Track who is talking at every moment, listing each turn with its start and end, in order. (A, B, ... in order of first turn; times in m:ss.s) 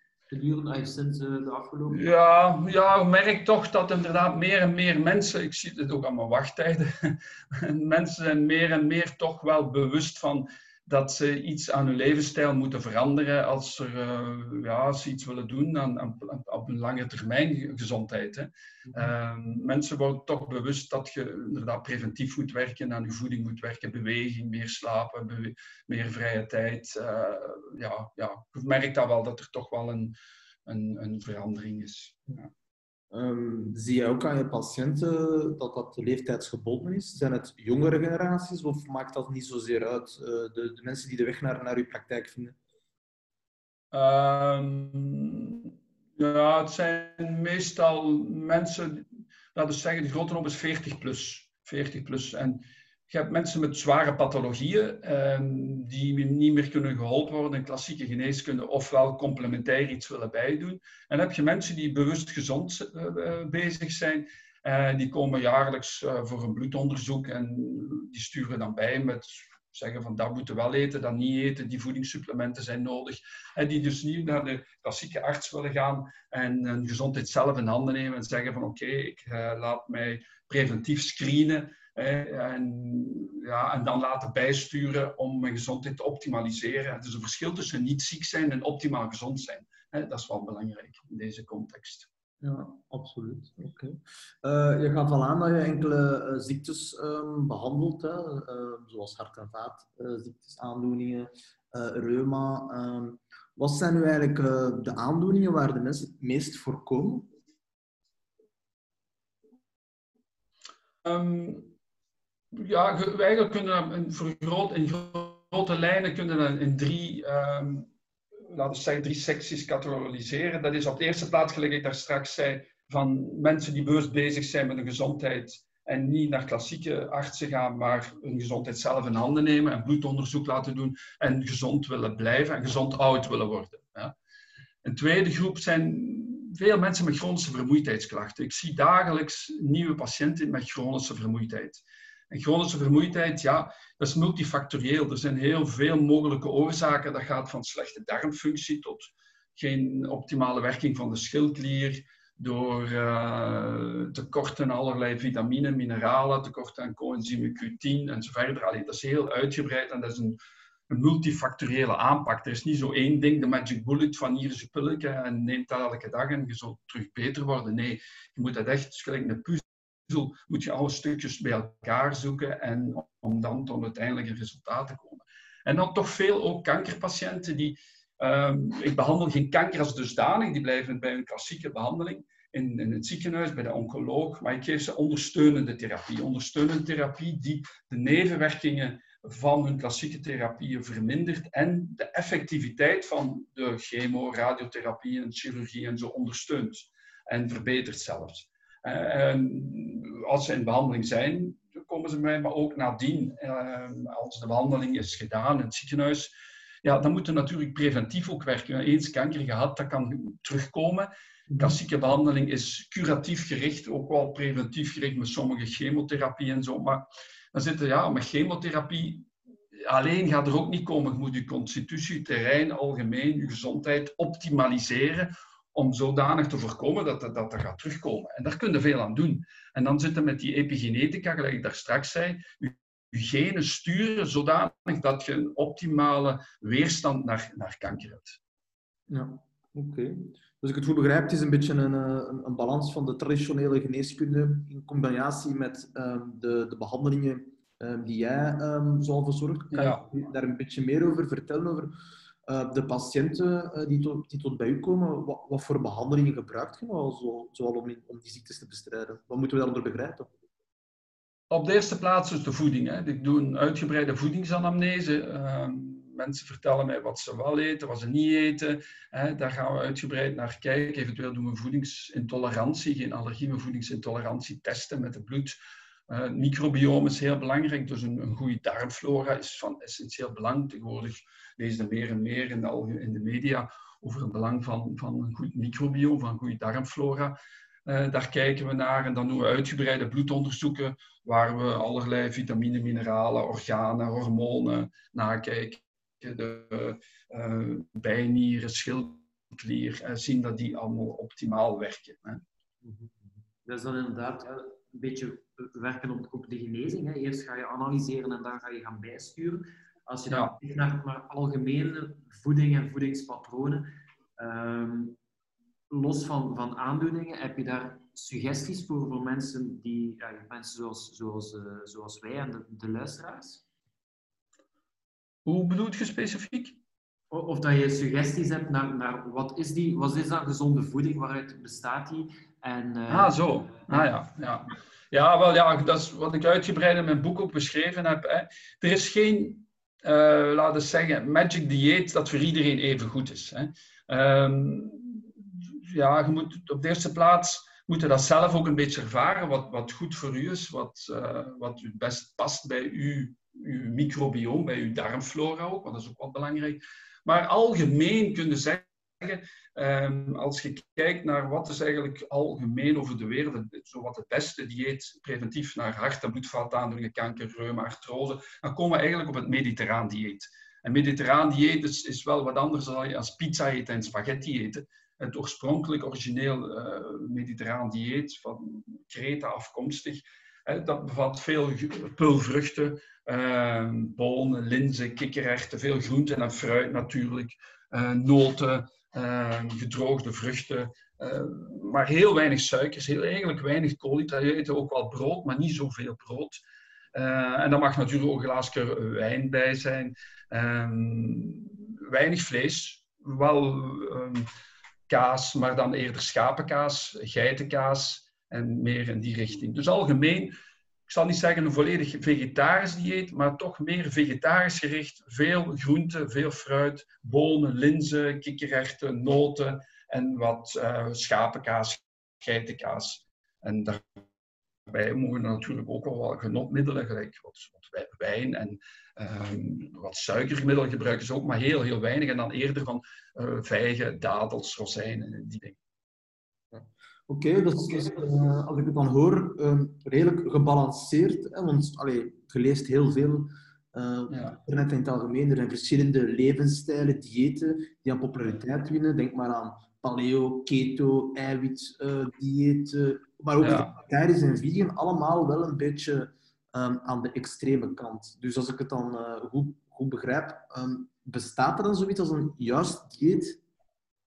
0:00.3-0:02.0 A
0:01.9-0:32.5 B
0:33.1-0:42.6 C
0:43.9-1:32.1 B
1:32.4-1:47.3 C
1:51.0-1:51.7 B
1:52.5-1:57.9 B
1:58.5-2:14.1 B
2:14.8-2:40.4 B
2:40.9-3:26.3 B
3:26.8-3:58.4 B
3:31.5-3:31.8 C
3:59.1-4:11.9 C
4:09.7-4:10.0 B
4:12.4-4:20.3 C
4:21.5-4:35.6 B
4:36.1-5:02.4 B
5:02.8-5:15.2 A
5:10.3-5:10.6 B
5:15.9-5:23.6 A
5:25.4-5:26.8 B
5:27.3-5:34.0 A
5:33.1-6:36.6 B
6:37.1-6:44.5 B
6:45.1-6:50.5 B
6:51.1-7:04.2 B
7:04.9-7:15.8 B
7:16.7-7:43.6 C
7:24.3-7:24.6 B
7:33.6-7:33.9 B